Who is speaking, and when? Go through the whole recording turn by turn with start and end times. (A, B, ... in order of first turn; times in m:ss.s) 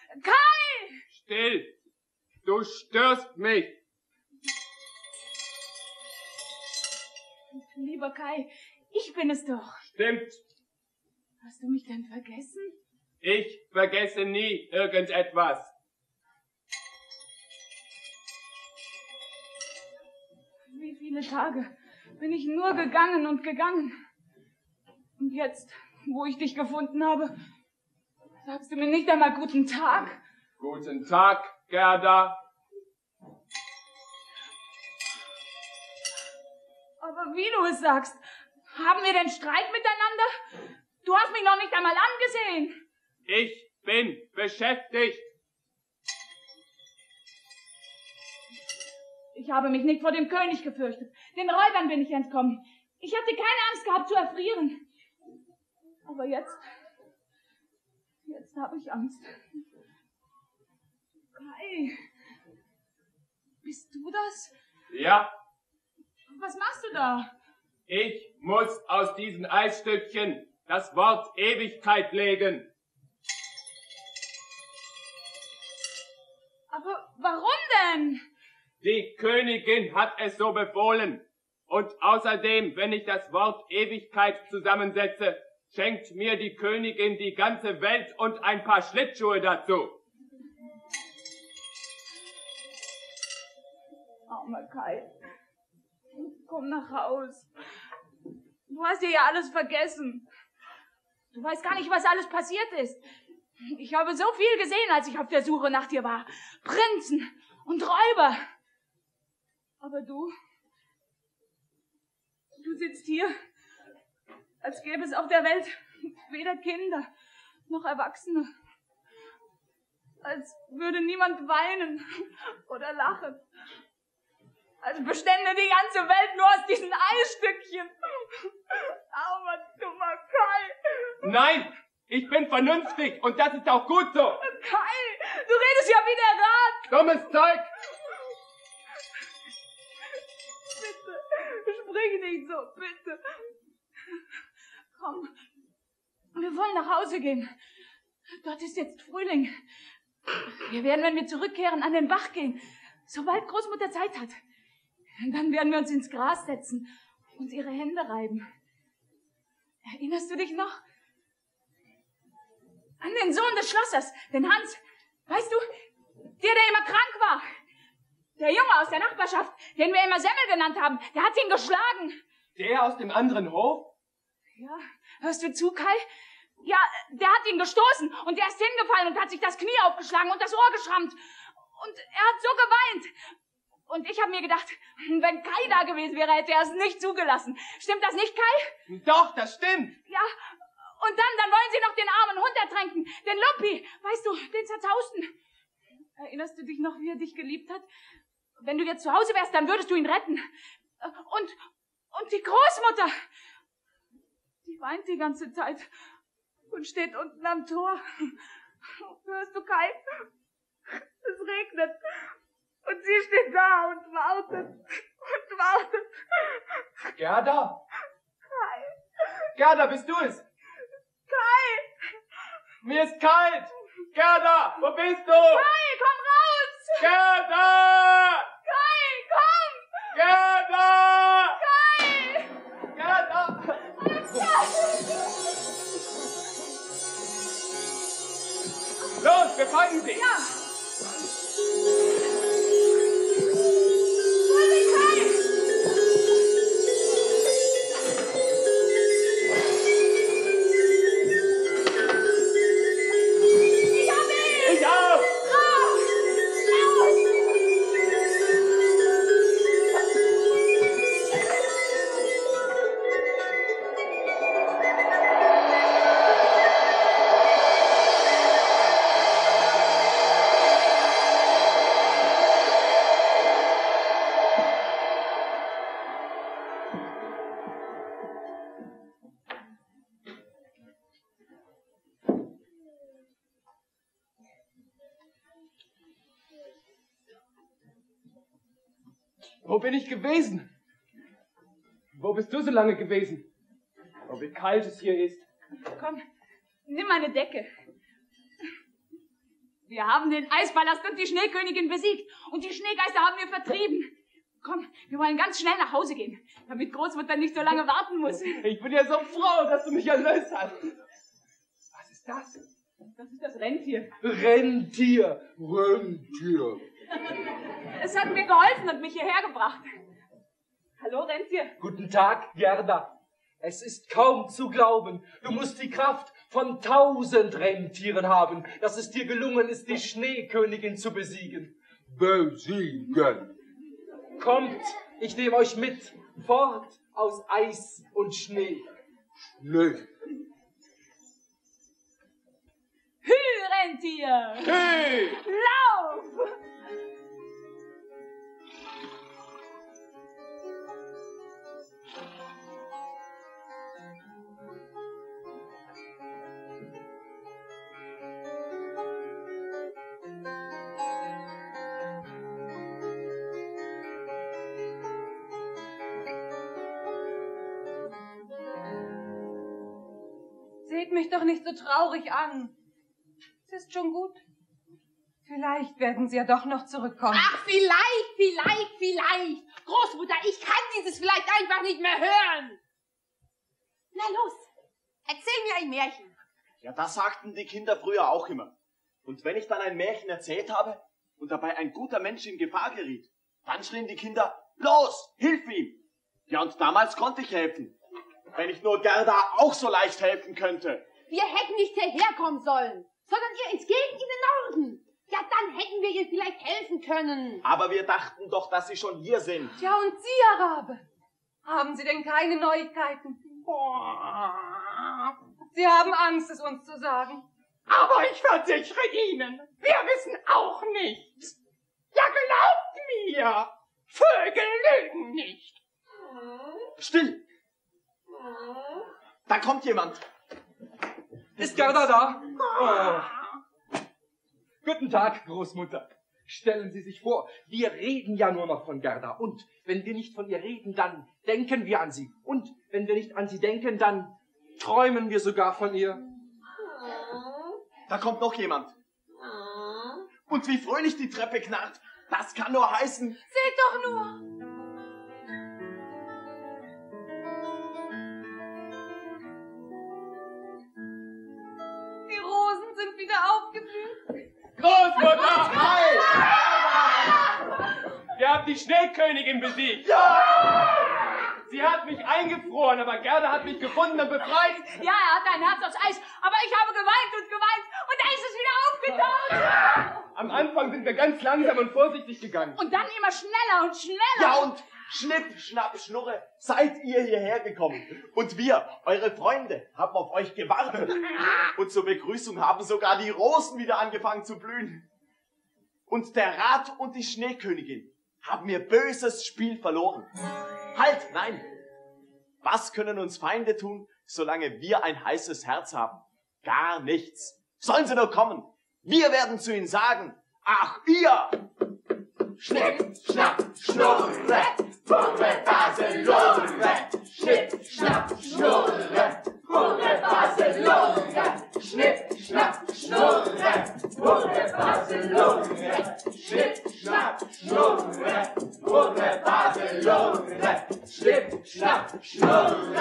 0:00.2-0:01.0 A
0:01.2-0:01.8 B
0:02.4-0:03.8 B
0:07.5-0:09.8 A
0:10.0-0:10.4 B
0:11.4-0:12.8 A
0:13.2-0:15.7 B
0:20.7-0:24.0 A
0:25.2-0:27.3 A
0:28.4-0:30.2 A
0:30.6-0:32.4 B
0:37.0-0:38.2 A
0:38.7-0:40.3 A
0:41.0-0:42.8 A
0:43.3-0:45.2 B
0:49.3-0:54.8 A
0:56.1-0:56.6 A
0:58.3-0:59.4 A
1:01.4-1:02.0 A
1:03.6-1:04.5 A
1:04.9-1:05.3 B
1:06.3-1:07.3 A
1:07.9-1:12.7 B
1:16.7-1:18.2 A
1:18.8-1:30.0 B
1:34.3-1:35.1 A
1:36.2-1:37.5 A
1:38.7-1:40.2 A
1:41.3-1:43.0 A
1:43.6-1:48.4 A
1:49.8-1:50.3 A
1:52.6-1:53.4 A
1:54.6-1:57.1 A
1:57.7-1:58.5 A
2:00.2-2:03.4 A
2:04.8-2:11.2 A
2:11.2-2:14.4 B
2:14.4-2:16.9 A
2:16.9-2:17.7 B
2:20.8-2:23.2 A
2:25.0-2:25.3 A
2:26.4-2:27.5 A
2:28.3-2:29.5 A
2:30.4-2:34.4 A
2:35.2-2:38.4 A
2:39.9-2:40.8 A
2:43.0-2:45.7 A
2:46.4-2:47.4 A
2:48.4-2:52.2 A
2:52.6-2:53.9 B
2:54.6-2:56.0 A
2:56.6-3:01.2 A
3:01.7-3:03.1 A
3:03.9-3:08.7 A
3:08.9-3:10.0 B
3:11.0-3:15.3 A
3:16.2-3:17.8 A
3:18.6-3:20.5 A
3:21.0-3:21.6 A
3:22.1-3:23.1 A
3:24.6-3:25.9 A
3:26.7-3:28.4 A
3:29.0-3:30.2 A
3:31.2-3:32.3 A
3:32.9-3:36.8 A
3:37.2-3:37.8 B
3:38.5-3:39.0 A
3:39.6-3:40.4 B
3:41.3-3:41.9 A
3:42.8-3:45.7 B
3:45.4-3:47.1 A
3:47.0-3:48.5 B
3:48.7-3:50.0 A
3:50.1-3:51.6 B
3:51.6-3:52.6 A
3:52.9-3:53.7 B
3:53.9-3:55.1 A
3:59.2-4:00.3 B
4:00.1-4:00.4 A
4:04.5-4:05.4 A
4:13.9-4:16.1 A
4:14.6-4:15.4 B
4:16.7-4:17.2 A
4:49.6-4:50.7 B
4:52.2-4:53.5 B
4:54.3-4:55.4 B
4:55.9-4:56.2 A
4:56.9-4:57.7 A
4:59.9-5:08.6 A
5:08.4-5:10.9 B
5:11.9-5:12.6 B
5:13.2-5:14.1 A
5:14.2-5:16.8 C
5:17.8-5:19.8 A
5:21.0-5:21.7 A
5:21.8-5:33.5 C
5:34.4-5:38.9 C
5:39.6-5:40.0 C
5:43.2-5:46.6 A
5:44.6-5:45.4 B
6:10.8-6:12.7 D
6:13.7-6:14.4 D
6:15.5-6:17.5 D
6:17.3-6:22.8 E
6:24.1-6:24.7 E
6:25.3-6:26.3 E
6:26.8-6:28.7 F
6:29.2-6:36.0 F
6:36.5-6:38.0 F
6:38.5-6:41.1 F
6:41.3-6:47.6 E
6:47.6-6:49.7 F
6:49.8-6:51.0 D
6:51.6-6:53.6 D
6:53.7-6:55.1 G
6:55.7-6:57.5 D
6:57.9-7:01.5 G
7:02.1-7:05.8 G
7:07.0-7:07.4 F
7:09.5-7:10.2 F
7:11.6-7:13.4 C
7:14.8-7:26.2 C
7:28.1-7:28.9 F
7:30.5-7:33.4 F
7:33.5-7:34.4 D
7:42.3-7:44.2 D
7:44.8-7:46.4 B
7:45.3-7:46.3 D
7:48.3-7:51.1 B
7:51.7-7:54.9 B
7:54.9-8:00.1 A
8:00.3-8:02.8 B
8:02.8-8:04.7 A
8:04.4-8:15.0 F
8:16.1-8:20.3 F
8:20.9-8:21.7 F
8:22.6-8:31.6 F
8:32.6-8:34.9 F
8:35.7-8:36.5 F
8:40.1-8:41.2 G
8:42.0-8:43.6 G
8:44.8-8:45.6 G
8:50.0-8:50.4 G
8:51.3-8:51.9 G